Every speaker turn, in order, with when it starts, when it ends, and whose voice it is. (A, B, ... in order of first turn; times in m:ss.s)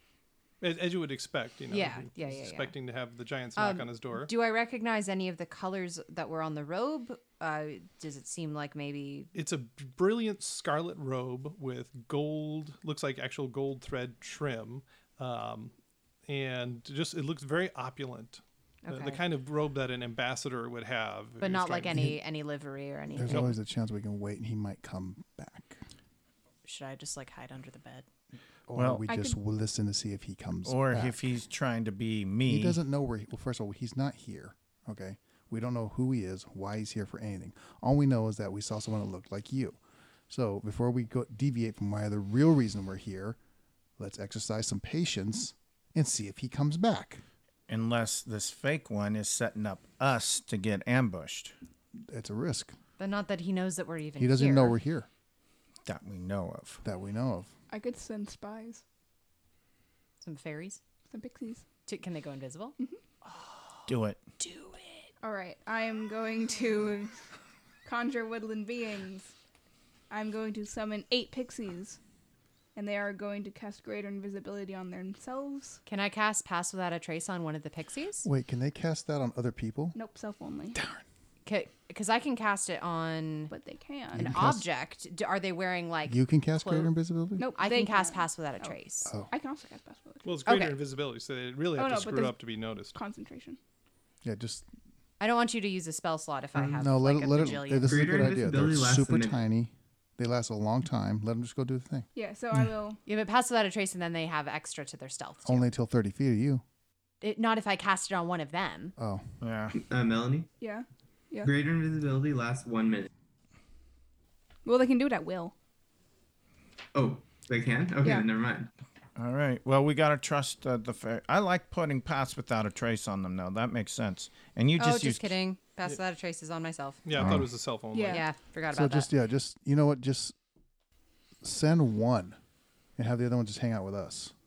0:00.6-0:04.3 A
0:01.7-0:02.7 B
0:03.6-0:09.3 B
0:09.3-0:15.7 A
0:16.3-0:22.1 A
0:18.8-0:19.2 B
0:21.4-0:23.5 B
0:21.9-0:22.2 C
0:23.1-0:25.8 C
0:26.6-0:28.0 B
0:28.7-0:31.4 C
0:28.7-0:29.0 D
0:29.0-0:29.4 E
0:30.6-0:32.8 D
0:32.5-0:43.4 C
0:44.0-0:47.2 C
0:47.7-0:51.5 D
0:52.0-0:52.8 C
0:53.0-0:54.8 B
0:54.2-0:55.1 C
0:55.8-0:56.8 D
0:56.8-0:57.5 C
0:57.7-0:58.8 E
1:00.2-1:00.8 B
1:01.1-1:01.7 E
1:01.8-1:05.1 B
1:03.9-1:04.2 D
1:05.2-1:07.3 E
1:07.8-1:09.3 E
1:10.1-1:12.0 E
1:12.7-1:15.8 E
1:15.8-1:18.2 B
1:18.2-1:20.0 C
1:19.9-1:20.8 E
1:20.7-1:21.0 C
1:21.4-1:23.5 B
1:23.5-1:24.3 E
1:24.1-1:24.6 C
1:24.1-1:26.9 B
1:26.1-1:27.5 C
1:27.4-1:30.3 E
1:27.5-1:29.1 B
1:30.2-1:33.0 A
1:30.4-1:30.8 B
1:31.8-1:33.6 E
1:34.2-1:34.6 C
1:35.2-1:38.0 B
1:36.6-1:42.1 C
1:37.8-1:39.4 F
1:42.1-1:43.0 E
1:43.0-1:45.7 B
1:45.4-1:46.6 C
1:47.2-1:48.9 B
1:49.0-1:49.4 C
1:49.4-1:49.8 D
1:49.7-1:50.5 F
1:50.6-1:51.5 E
1:51.4-1:53.1 F
1:54.6-1:55.5 E
1:56.9-1:58.7 F
1:59.2-2:05.4 D
2:04.8-2:07.0 B
2:07.0-2:08.2 A
2:07.2-2:07.4 D
2:07.9-2:08.2 E
2:08.0-2:09.1 B
2:08.7-2:10.4 C
2:11.4-2:12.4 C
2:12.9-2:14.3 C